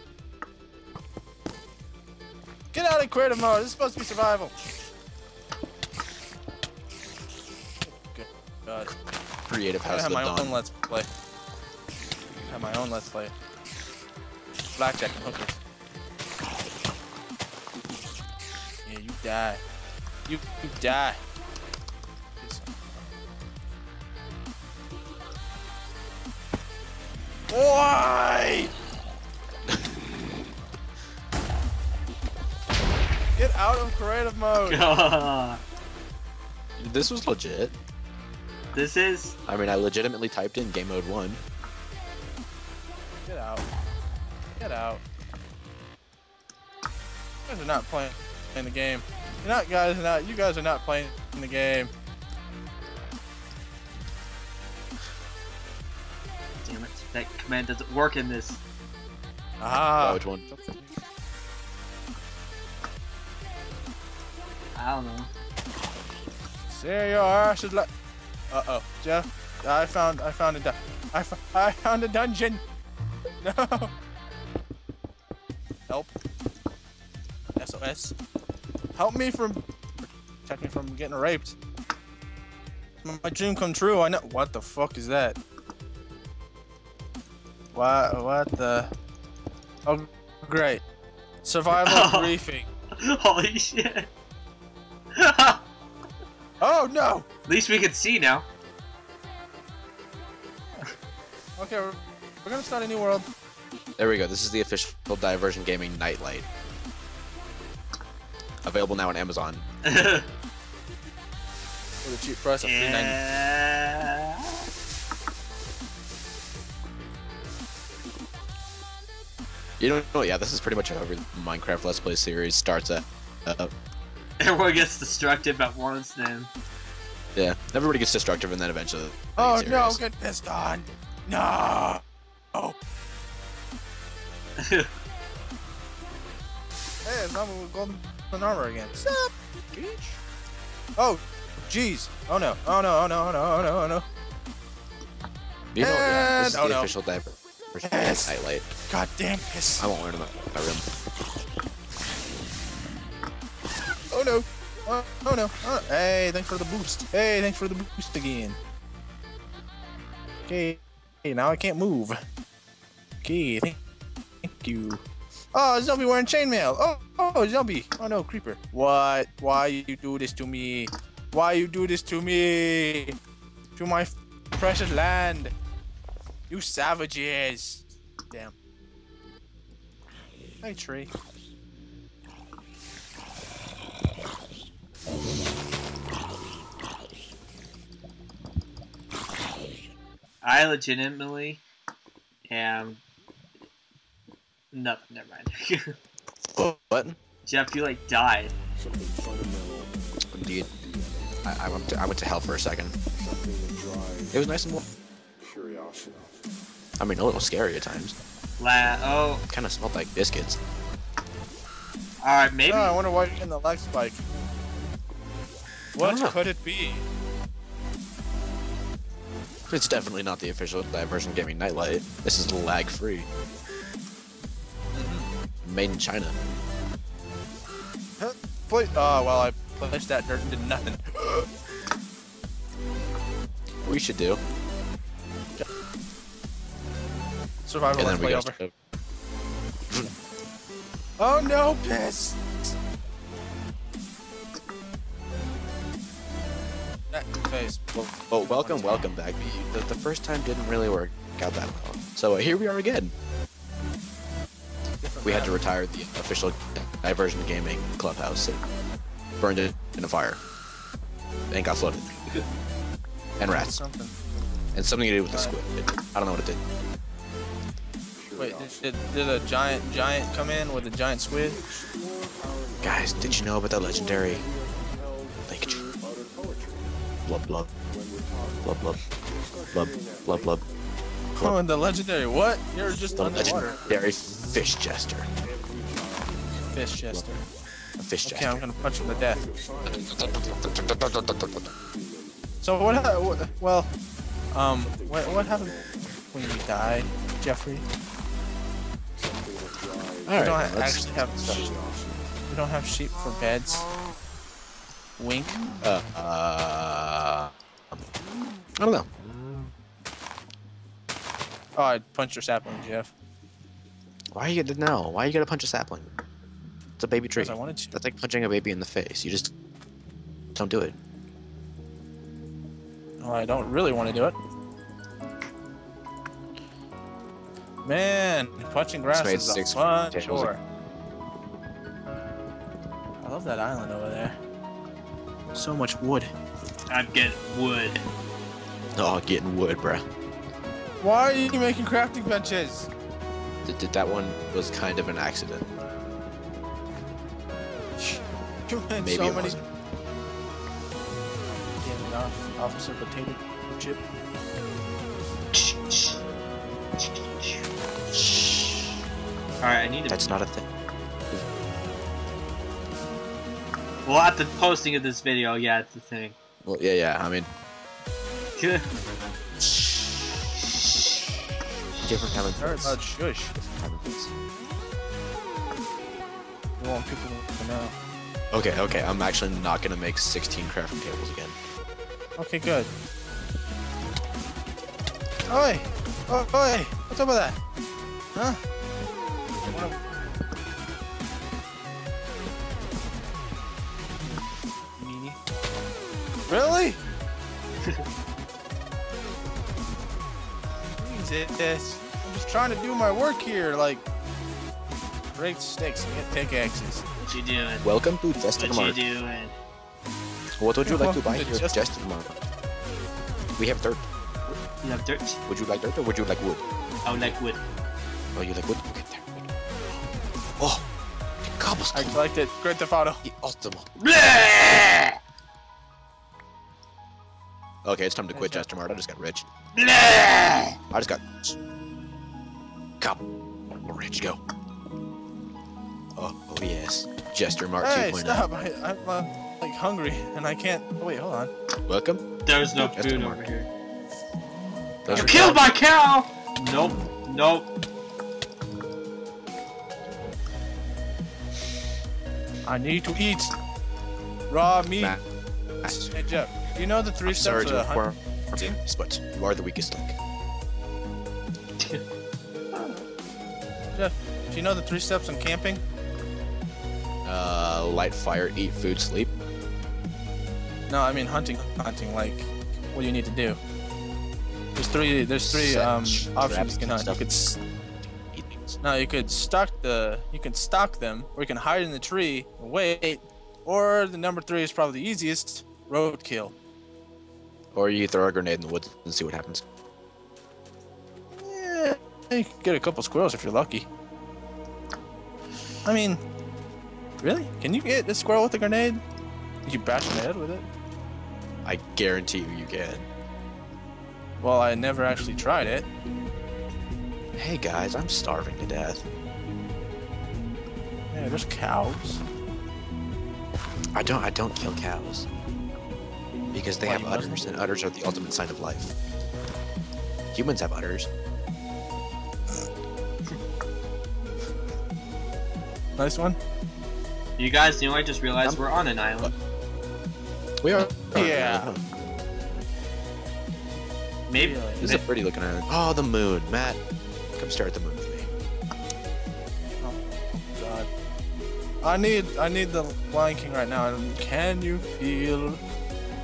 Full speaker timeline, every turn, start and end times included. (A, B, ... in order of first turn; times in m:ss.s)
0:02.7-0:04.5 A
0:07.8-0:08.9 A
0:09.5-0:10.6 B
0:09.8-0:11.1 A
0:12.5-0:13.3 A
0:14.8-0:15.6 A
0:18.9-0:19.6 A
0:20.3-0:21.2 A
0:22.4-0:23.1 A
0:27.5-0:28.7 A
0:33.4-0:34.9 A
0:34.7-0:35.6 C
0:36.8-0:37.7 B
0:38.7-0:39.4 C
0:39.5-0:41.4 B
0:43.3-0:43.7 A
0:44.6-0:45.0 A
0:47.5-0:51.9 A
0:56.6-0:58.6 C
0:59.6-1:00.2 A
1:00.0-1:00.9 B
1:04.8-1:05.3 C
1:06.7-1:07.9 A
1:08.5-1:12.6 A
1:13.4-1:13.9 A
1:17.6-1:18.2 A
1:19.0-1:21.6 A
1:23.0-1:25.4 A
1:27.7-1:28.9 A
1:29.9-1:30.8 A
1:31.4-1:32.7 A
1:31.7-1:32.4 C
1:33.0-1:34.1 C
1:35.1-1:35.6 C
1:36.6-1:37.3 A
1:37.5-1:38.5 C
1:41.6-1:43.3 A
1:44.0-1:46.5 B
1:48.6-1:49.7 B
1:49.8-1:50.3 C
1:52.0-1:53.2 A
1:52.6-1:54.7 C
1:59.8-2:03.7 B
2:04.4-2:06.5 C
2:07.4-2:10.0 B
2:09.4-2:12.0 A
2:14.6-2:14.9 C
2:17.0-2:19.3 A
2:19.7-2:20.2 B
2:21.0-2:24.0 A
2:25.7-2:28.7 B
2:25.8-2:26.9 A
2:27.8-2:28.3 A
2:28.9-2:29.9 A
2:29.8-2:30.8 B
2:34.1-2:38.6 A
2:40.5-2:42.2 A
2:43.2-2:43.8 A
2:44.4-2:45.0 A
2:45.5-2:53.2 A
2:53.8-2:55.5 A
2:56.5-2:58.6 A
3:00.6-3:01.1 A
3:10.4-3:11.6 C
3:12.5-3:13.0 C
3:14.7-3:16.0 C
3:16.5-3:17.2 B
3:17.5-3:18.5 C
3:20.3-3:20.7 B
3:21.4-3:23.0 B
3:24.3-3:24.8 B
3:27.0-3:28.2 B
3:28.6-3:29.4 C
3:29.5-3:30.6 B
3:32.2-3:33.0 C
3:32.7-3:34.2 A
3:36.0-3:37.0 A
3:36.0-3:36.4 B
3:39.7-3:43.3 B
3:44.9-3:45.3 A
3:45.6-3:46.4 B
3:48.2-3:51.4 A
3:53.8-3:54.4 B
3:57.7-3:58.6 A
3:58.0-3:58.7 B
4:01.2-4:02.4 A
4:07.1-4:07.8 A
4:08.0-4:13.1 B
4:08.4-4:09.1 A
4:15.0-4:15.6 A
4:15.2-4:18.6 B
4:19.4-4:20.4 B
4:21.5-4:22.1 B
4:23.4-4:23.8 B
4:23.5-4:24.2 A
4:24.7-4:26.6 B
4:25.3-4:25.6 A
4:28.4-4:31.6 A
4:32.8-4:34.5 B
4:35.5-4:35.8 B
4:37.3-4:37.7 B
4:38.6-4:39.0 B
4:39.7-4:40.6 B
4:41.4-4:43.8 A
4:43.2-4:45.3 B
4:46.7-4:47.4 A
4:47.1-4:47.4 B
4:48.0-4:48.8 B
4:48.2-4:49.5 A
4:49.8-4:51.7 B
4:52.6-4:53.9 A
4:54.5-4:57.9 A
5:00.3-5:01.7 B
5:00.4-5:01.7 A
5:02.5-5:03.9 A
5:05.2-5:05.8 A
5:05.8-5:08.0 B
5:08.8-5:09.1 B
5:11.8-5:13.1 A
5:14.3-5:16.1 B
5:17.0-5:19.5 B
5:17.4-5:18.0 A
5:20.6-5:21.0 B
5:23.2-5:24.4 A
5:27.8-5:30.6 A
5:29.1-5:30.5 B
5:33.2-5:34.4 A
5:35.5-5:36.3 A
5:36.9-5:38.0 C
5:39.0-5:40.0 B
5:41.0-5:42.9 A
5:43.6-5:45.7 B
5:48.0-5:49.6 A
5:49.0-5:49.7 B
5:51.8-5:54.0 A
5:55.5-5:56.2 C
5:57.0-5:57.6 C
5:58.1-5:59.0 B
5:59.6-6:00.4 C
6:00.1-6:00.7 B
6:04.0-6:06.4 C
6:06.6-6:07.5 B
6:08.6-6:08.9 C
6:09.6-6:10.5 B
6:10.6-6:11.4 C
6:12.0-6:13.0 B
6:12.6-6:13.6 A
6:13.6-6:14.3 B
6:16.8-6:17.9 A
6:18.5-6:21.6 B
6:22.4-6:22.9 A
6:25.5-6:27.6 A
6:28.4-6:28.6 A
6:29.7-6:30.0 A
6:35.0-6:35.4 A
6:36.5-6:37.0 A
6:41.0-6:44.0 A
6:45.4-6:47.1 A
6:47.3-6:47.9 C
6:47.8-6:49.0 B
6:48.6-6:49.6 C
6:50.6-6:52.4 B
6:50.8-6:51.9 A
6:53.6-6:54.1 B
6:54.5-6:55.4 C
6:55.5-6:56.6 B
6:57.0-6:57.6 C
6:58.4-6:59.5 B
7:00.6-7:00.9 B
7:01.4-7:02.1 B
7:01.9-7:03.2 A
7:03.2-7:04.9 B
7:04.0-7:05.1 C
7:07.8-7:09.5 B
7:08.3-7:08.7 A
7:09.8-7:10.8 C
7:10.9-7:11.6 B
7:13.0-7:14.4 B
7:16.2-7:18.5 B
7:17.8-7:21.5 A
7:21.9-7:23.4 B
7:22.5-7:23.7 C
7:25.0-7:25.6 B
7:25.1-7:25.6 A
7:25.1-7:27.7 C
7:32.7-7:33.5 A
7:34.5-7:35.2 A
7:35.8-7:36.1 B
7:35.9-7:38.8 A
7:37.3-7:40.2 B
7:42.7-7:43.0 C
7:44.0-7:45.8 A
7:47.2-7:49.3 B
7:50.9-7:53.6 A
7:54.8-7:57.6 A
7:55.4-7:57.2 B
7:58.1-7:58.8 B
7:58.8-8:06.5 A
8:07.7-8:09.6 B
8:11.4-8:13.9 A
8:15.8-8:16.2 A
8:17.2-8:19.0 A
8:19.7-8:20.7 A
8:21.6-8:23.1 B
8:24.4-8:25.9 A
8:27.4-8:29.1 B
8:31.1-8:32.2 A
8:33.9-8:35.3 B
8:36.5-8:38.9 B
8:36.9-8:37.4 A
8:40.3-8:41.1 B
8:46.0-8:46.4 A
8:47.4-8:49.3 C
8:50.6-8:51.9 B
8:51.0-8:51.8 A
8:54.3-8:55.0 C
8:54.4-8:55.0 A
8:54.8-8:56.8 B
8:57.4-8:58.3 B
8:59.8-9:00.9 A
9:01.8-9:05.6 A